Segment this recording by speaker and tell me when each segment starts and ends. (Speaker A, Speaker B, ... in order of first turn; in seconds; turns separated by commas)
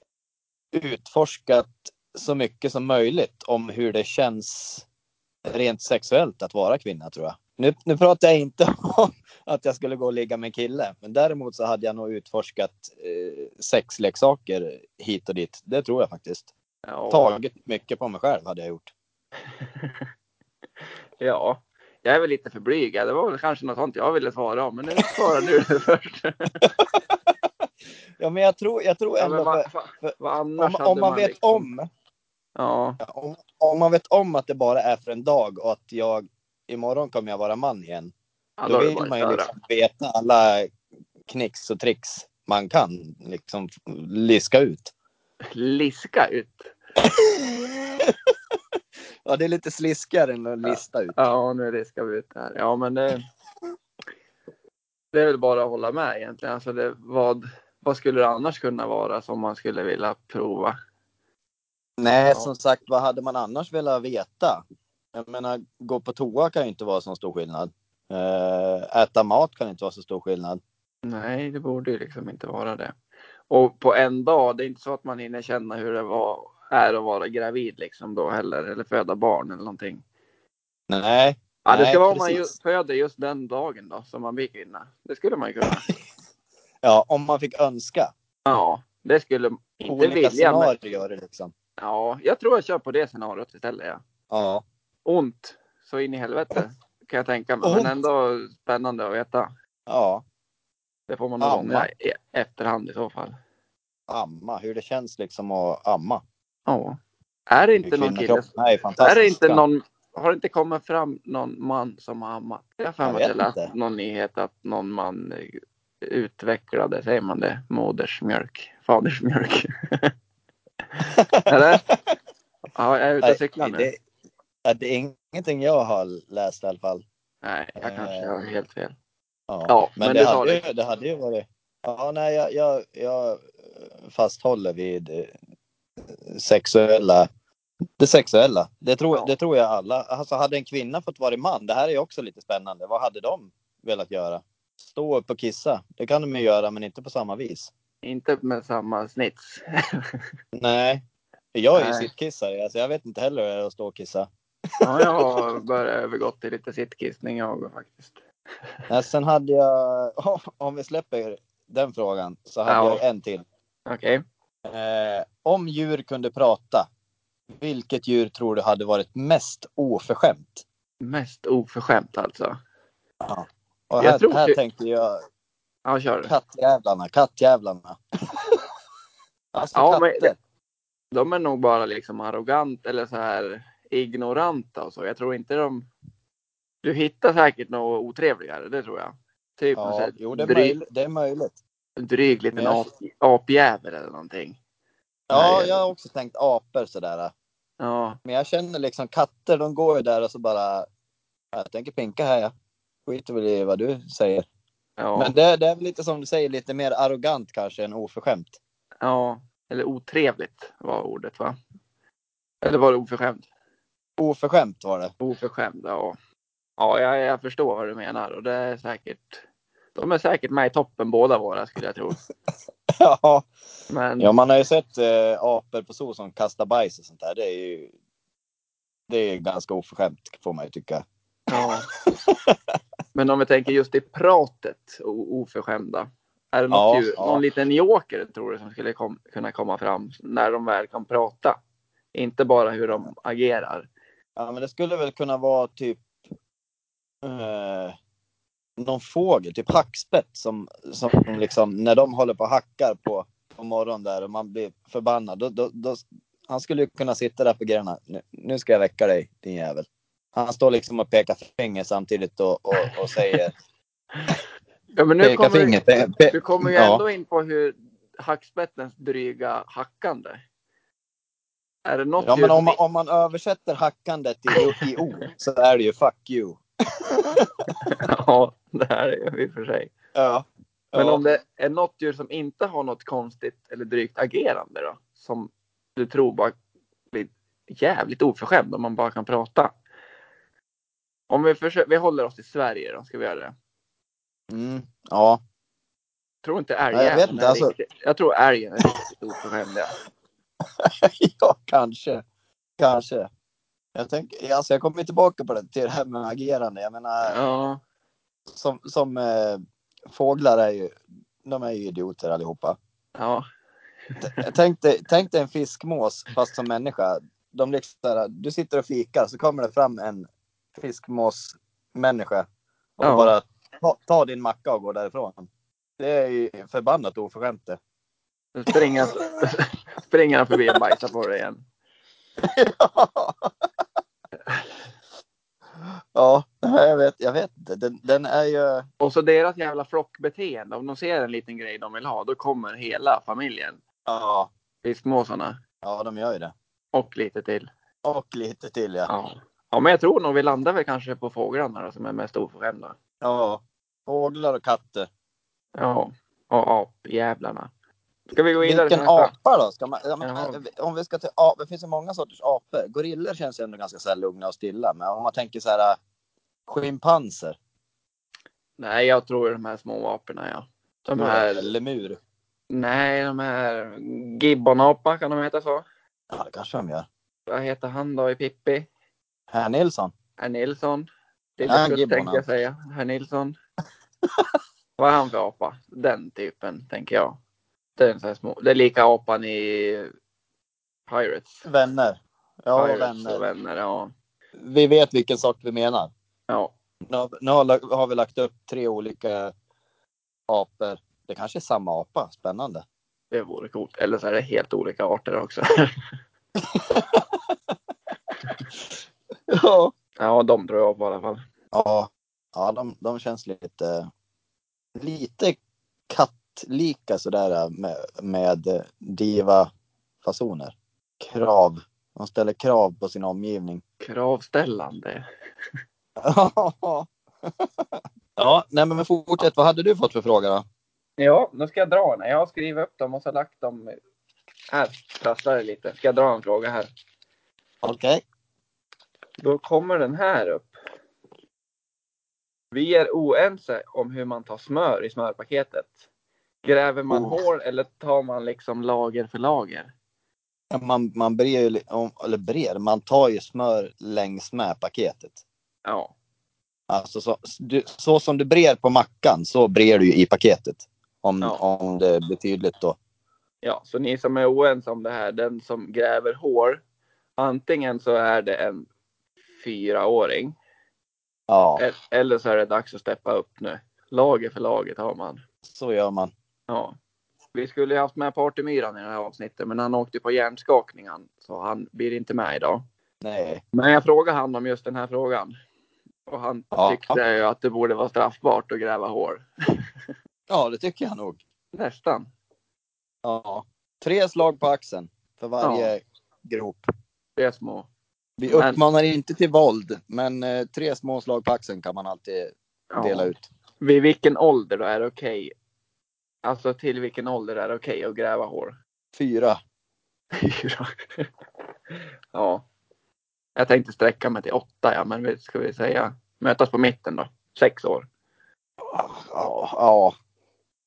Speaker A: 0.7-4.8, Speaker A: 5.4-16.5, Speaker B: 16.9-17.3, Speaker A: 17.1-18.9, Speaker B: 19.5-20.0, Speaker B: 21.2-26.7, Speaker A: 26.8-27.1, Speaker A: 28.2-31.9, Speaker B: 29.2-31.7, Speaker B: 32.5-33.0, Speaker A: 33.0-38.1, Speaker B: 38.6-39.5, Speaker A: 38.7-40.7, Speaker A: 41.3-44.9, Speaker B: 45.5-46.7, Speaker A: 47.0-48.1, Speaker A: 49.2-51.1, Speaker B: 50.6-53.2, Speaker B: 55.1-60.8, Speaker A: 62.0-64.6, Speaker A: 65.1-70.6, Speaker B: 71.0-72.9, Speaker B: 73.5-80.0, Speaker A: 80.9-82.5, Speaker B: 81.6-85.9, Speaker A: 86.8-88.1, Speaker B: 88.5-90.7, Speaker A: 89.9-91.5, Speaker B: 91.8-94.0, Speaker A: 94.3-94.6, Speaker B: 95.0-99.5, Speaker A: 97.6-97.9, Speaker A: 99.9-100.2, Speaker B: 101.1-103.3, Speaker A: 101.4-101.9, Speaker A: 104.1-106.2, Speaker B: 106.7-107.0, Speaker B: 107.5-108.5, Speaker A: 107.8-109.6, Speaker B: 109.0-120.1, Speaker A: 113.0-113.7, Speaker B: 120.9-121.8, Speaker A: 121.1-122.0, Speaker B: 122.7-123.9, Speaker A: 123.2-124.0, Speaker A: 124.7-127.0, Speaker B: 127.4-128.9, Speaker A: 127.8-128.3, Speaker A: 129.5-135.3, Speaker B: 129.7-130.6, Speaker A: 136.2-137.3, Speaker A: 138.0-147.7, Speaker B: 148.0-150.2, Speaker A: 150.5-151.0, Speaker A: 151.5-155.4, Speaker B: 151.7-152.1, Speaker B: 154.8-158.2, Speaker A: 158.9-163.4, Speaker B: 162.7-163.0, Speaker B: 163.9-164.2, Speaker A: 164.7-166.9, Speaker A: 167.6-170.6, Speaker B: 171.0-172.6, Speaker A: 173.2-175.2, Speaker B: 174.0-174.6, Speaker B: 175.8-176.3, Speaker A: 176.2-178.0, Speaker A: 179.5-180.3, Speaker B: 179.7-180.3, Speaker B: 181.1-185.9, Speaker B: 186.8-190.8, Speaker A: 189.8-191.6, Speaker B: 192.0-194.6, Speaker A: 192.5-192.8, Speaker A: 195.3-197.3, Speaker B: 195.3-195.9, Speaker B: 197.8-198.2, Speaker A: 198.2-200.9, Speaker A: 201.5-202.5, Speaker A: 203.1-204.4, Speaker B: 205.0-205.3, Speaker A: 205.1-208.6, Speaker B: 209.0-211.6, Speaker B: 212.6-213.4, Speaker A: 214.2-215.1, Speaker B: 215.2-216.2, Speaker B: 216.8-219.4, Speaker B: 219.9-222.2, Speaker A: 223.0-223.5, Speaker B: 223.9-224.3, Speaker A: 224.2-227.9, Speaker A: 229.1-232.6, Speaker B: 231.5-231.9, Speaker B: 233.1-241.6, Speaker A: 236.7-237.4, Speaker B: 242.1-243.9, Speaker A: 244.4-246.1, Speaker A: 247.2-247.9, Speaker A: 248.8-263.5, Speaker B: 264.9-270.4, Speaker A: 265.2-267.0, Speaker B: 271.9-272.8, Speaker A: 272.2-276.6, Speaker B: 277.8-279.9, Speaker A: 280.1-281.2, Speaker B: 280.9-286.5, Speaker B: 287.1-289.7, Speaker B: 291.3-293.5, Speaker A: 294.5-295.4, Speaker B: 296.4-299.9, Speaker A: 296.9-297.7, Speaker A: 300.8-302.2, Speaker A: 302.8-303.3, Speaker A: 303.9-307.4, Speaker B: 307.2-307.8, Speaker A: 308.5-312.8, Speaker B: 313.1-313.4, Speaker B: 314.1-314.4, Speaker A: 314.2-322.4, Speaker A: 323.0-325.5, Speaker B: 323.0-323.3, Speaker A: 326.0-327.8, Speaker B: 328.5-331.6, Speaker A: 332.4-333.5, Speaker A: 336.1-338.9, Speaker B: 339.0-343.8, Speaker A: 344.1-344.5, Speaker B: 344.8-345.6, Speaker A: 345.8-346.5, Speaker B: 346.9-347.7, Speaker A: 348.0-349.1, Speaker B: 349.1-352.9, Speaker A: 353.2-355.1, Speaker B: 355.8-357.7, Speaker B: 358.3-359.3, Speaker A: 358.6-366.0, Speaker B: 360.2-360.6, Speaker A: 366.7-367.6, Speaker B: 368.8-371.7, Speaker A: 371.1-372.2, Speaker B: 372.7-375.8, Speaker A: 376.3-377.1, Speaker B: 377.5-378.9, Speaker A: 379.5-380.1, Speaker B: 380.4-383.6, Speaker A: 381.6-382.4, Speaker B: 385.0-387.4, Speaker B: 388.0-390.1, Speaker B: 391.1-391.6, Speaker A: 391.6-393.4, Speaker B: 392.7-394.1, Speaker A: 394.6-396.1, Speaker A: 397.1-399.5, Speaker A: 400.5-402.8, Speaker B: 403.3-406.0, Speaker A: 406.7-407.5, Speaker A: 409.5-409.9, Speaker B: 410.2-411.4, Speaker A: 411.7-414.1, Speaker A: 414.9-415.6, Speaker A: 416.1-419.7, Speaker A: 420.2-423.8, Speaker B: 424.0-425.2, Speaker A: 426.2-430.6, Speaker B: 431.2-434.0, Speaker B: 434.7-436.9, Speaker A: 437.8-438.2, Speaker B: 439.4-440.7, Speaker B: 442.7-445.9, Speaker B: 446.6-449.9, Speaker A: 447.1-447.4, Speaker A: 450.7-455.4, Speaker B: 455.9-456.1, Speaker A: 456.9-463.0, Speaker B: 463.6-466.8, Speaker B: 467.4-468.9, Speaker B: 469.6-470.6, Speaker A: 471.5-471.8, Speaker B: 471.8-475.4, Speaker A: 475.6-476.3, Speaker B: 476.7-476.9, Speaker B: 477.5-482.8, Speaker A: 483.2-483.6, Speaker B: 483.7-485.6, Speaker B: 486.3-489.8, Speaker A: 486.7-487.2, Speaker A: 490.5-491.4, Speaker B: 491.7-492.3, Speaker A: 493.2-496.9, Speaker B: 495.6-495.9, Speaker B: 497.4-497.9, Speaker A: 498.4-503.5, Speaker B: 498.5-498.8, Speaker B: 502.9-505.5, Speaker B: 506.4-508.8, Speaker A: 509.1-509.6, Speaker B: 510.3-511.3, Speaker B: 512.3-512.6, Speaker B: 513.5-518.1, Speaker A: 518.8-520.1